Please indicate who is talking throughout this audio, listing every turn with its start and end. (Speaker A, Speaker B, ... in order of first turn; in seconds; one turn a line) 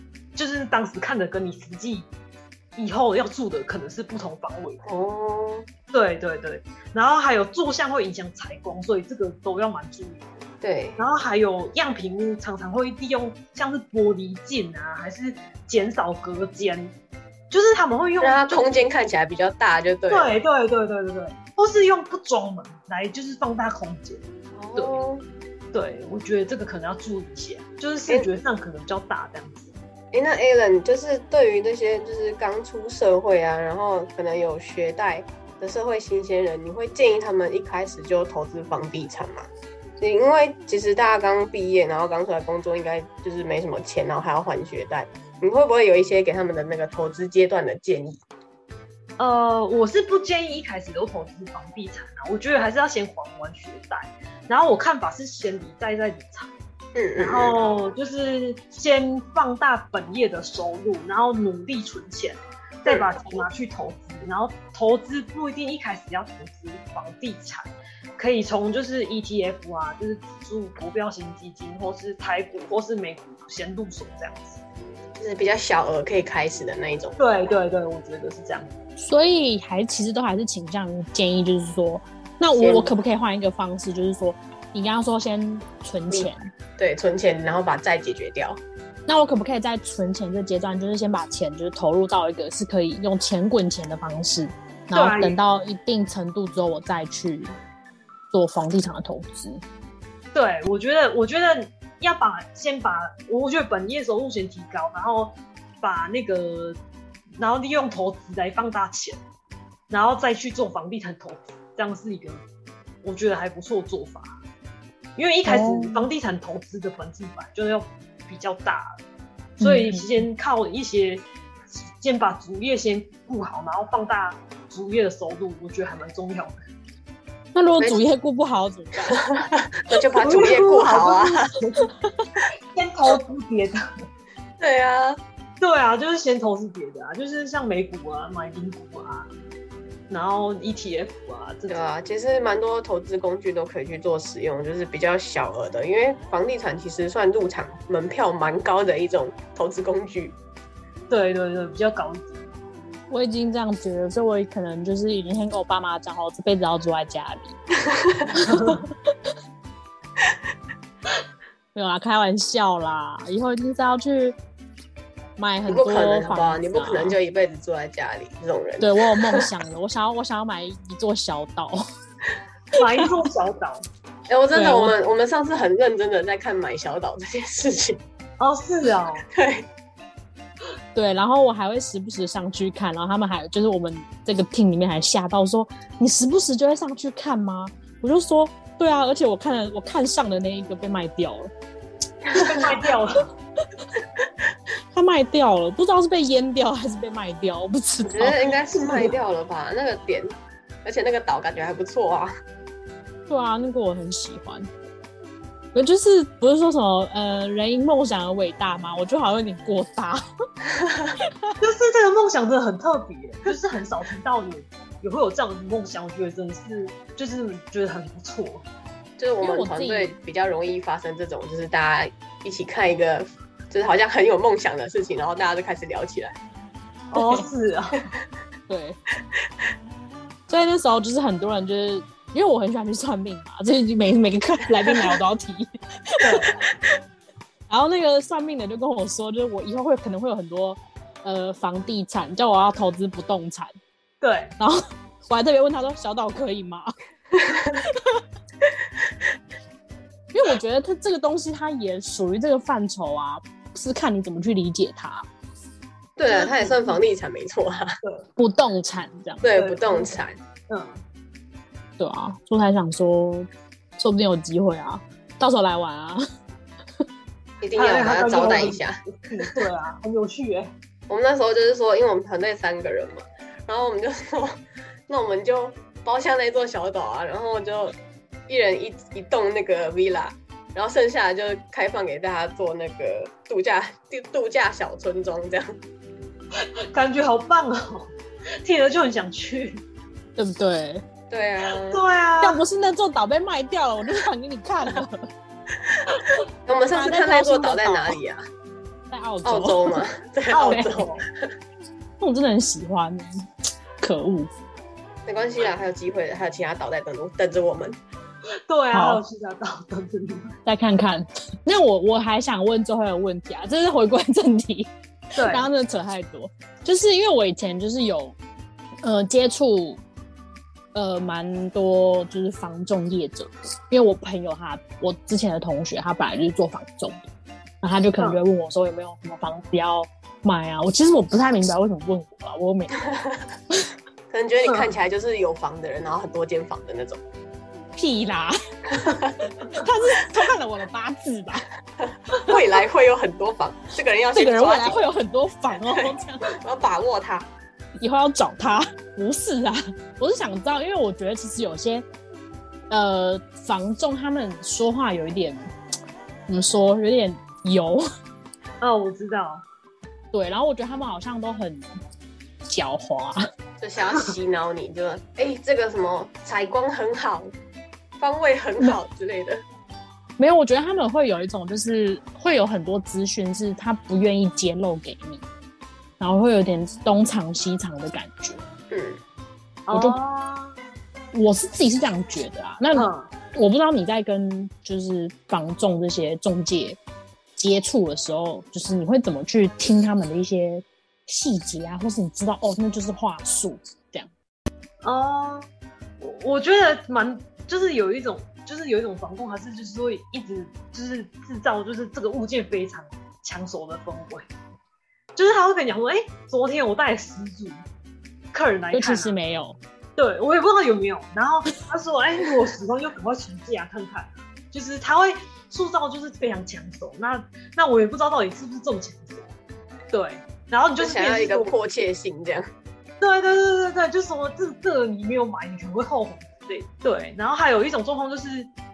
Speaker A: 0.3-2.1
Speaker A: 2.8-4.8
Speaker B: 4.8-5.7
Speaker A: 5.9-10.3
Speaker B: 10.6-11.0
Speaker A: 11.0-16.9
Speaker A: 17.5-18.9
Speaker B: 18.2-20.4
Speaker A: 20.1-24.2
Speaker B: 24.5-25.2
Speaker A: 24.7-25.0
Speaker A: 25.7-29.7
Speaker B: 30.1-39.5
Speaker B: 40.0-48.2
Speaker A: 49.2-56.5
Speaker B: 56.9-57.6
Speaker A: 57.2-74.6
Speaker B: 62.9-63.4
Speaker B: 75.1-77.2
Speaker A: 77.2-78.7
Speaker C: 79.0-86.5
Speaker B: 82.5-82.9
Speaker B: 86.1-88.6
Speaker C: 89.1-97.5
Speaker A: 94.9-95.4
Speaker C: 98.3-99.6
Speaker A: 100.3-106.8
Speaker A: 107.4-109.2
Speaker A: 109.9-112.4
Speaker A: 113.0-114.4
Speaker A: 115.2-119.0
Speaker C: 115.4-116.0
Speaker A: 119.6-126.6
Speaker C: 119.6-120.2
Speaker C: 127.5-129.2
Speaker B: 129.3-131.5
Speaker A: 130.2-131.9
Speaker A: 132.7-134.0
Speaker B: 134.6-135.2
Speaker A: 135.6-139.3
Speaker A: 140.1-141.8
Speaker B: 141.7-150.3
Speaker A: 151.1-152.4
Speaker C: 153.1-157.6
Speaker B: 157.9-158.3
Speaker C: 158.3-159.1
Speaker C: 161.7-164.4
Speaker C: 165.4-167.1
Speaker B: 165.7-169.4
Speaker C: 168.8-171.8
Speaker A: 172.8-173.8
Speaker B: 174.3-178.0
Speaker C: 174.5-174.9
Speaker A: 178.4-179.2
Speaker B: 179.3-179.7
Speaker C: 180.9-191.5
Speaker A: 192.3-193.2
Speaker C: 192.4-192.6
Speaker C: 194.9-198.5
Speaker B: 198.0-200.3
Speaker A: 198.7-199.1
Speaker B: 200.8-202.3
Speaker C: 203.3-204.7
Speaker C: 205.7-210.2
Speaker A: 211.6-218.6
Speaker B: 219.2-226.3
Speaker C: 219.4-220.1
Speaker A: 227.1-228.1
Speaker C: 227.2-227.5
Speaker C: 228.7-229.0
Speaker C: 230.5-236.4
Speaker A: 236.2-236.5
Speaker C: 237.7-243.7
Speaker A: 244.2-244.5
Speaker C: 244.6-246.9
Speaker C: 247.7-248.2
Speaker C: 250.3-255.2
Speaker B: 256.2-257.9
Speaker A: 256.3-257.0
Speaker C: 258.4-259.5
Speaker B: 259.4-260.4
Speaker A: 259.5-261.0
Speaker C: 262.0-266.2
Speaker B: 267.6-269.0
Speaker A: 267.8-270.7
Speaker B: 271.1-274.6
Speaker B: 275.1-277.9
Speaker B: 278.5-285.8
Speaker A: 286.5-288.1
Speaker A: 288.6-289.8
Speaker C: 290.4-291.0
Speaker B: 291.3-292.0
Speaker A: 291.9-292.6
Speaker C: 292.4-295.3
Speaker B: 296.6-298.4
Speaker C: 296.9-298.1
Speaker C: 299.1-300.0
Speaker B: 299.4-301.5
Speaker A: 300.5-301.2
Speaker C: 300.7-300.9
Speaker C: 302.2-303.3
Speaker C: 304.0-304.5
Speaker B: 305.2-308.0
Speaker A: 308.7-310.6
Speaker C: 308.9-309.2
Speaker C: 310.6-318.4
Speaker A: 315.4-315.7
Speaker C: 319.0-320.0
Speaker C: 320.9-327.2
Speaker C: 327.8-333.0
Speaker B: 334.3-337.2
Speaker C: 337.9-341.7
Speaker B: 339.0-339.3
Speaker B: 342.0-345.1
Speaker C: 344.3-346.4
Speaker B: 345.9-347.5
Speaker C: 348.0-352.0
Speaker C: 352.9-355.6
Speaker C: 356.5-358.0
Speaker A: 358.8-359.6
Speaker C: 360.3-361.8
Speaker C: 362.7-363.4
Speaker B: 363.8-367.5
Speaker B: 368.2-369.6
Speaker C: 370.4-375.4
Speaker C: 376.2-378.6
Speaker B: 378.9-379.2
Speaker A: 379.9-380.8
Speaker C: 379.9-380.2
Speaker C: 381.3-387.0
Speaker A: 382.9-383.3
Speaker C: 387.6-394.3
Speaker A: 395.0-395.7
Speaker A: 396.2-404.5
Speaker A: 405.4-407.8
Speaker A: 408.5-409.3
Speaker C: 408.9-409.8
Speaker A: 410.2-419.5
Speaker A: 420.1-421.8
Speaker B: 421.0-422.7
Speaker A: 423.2-428.7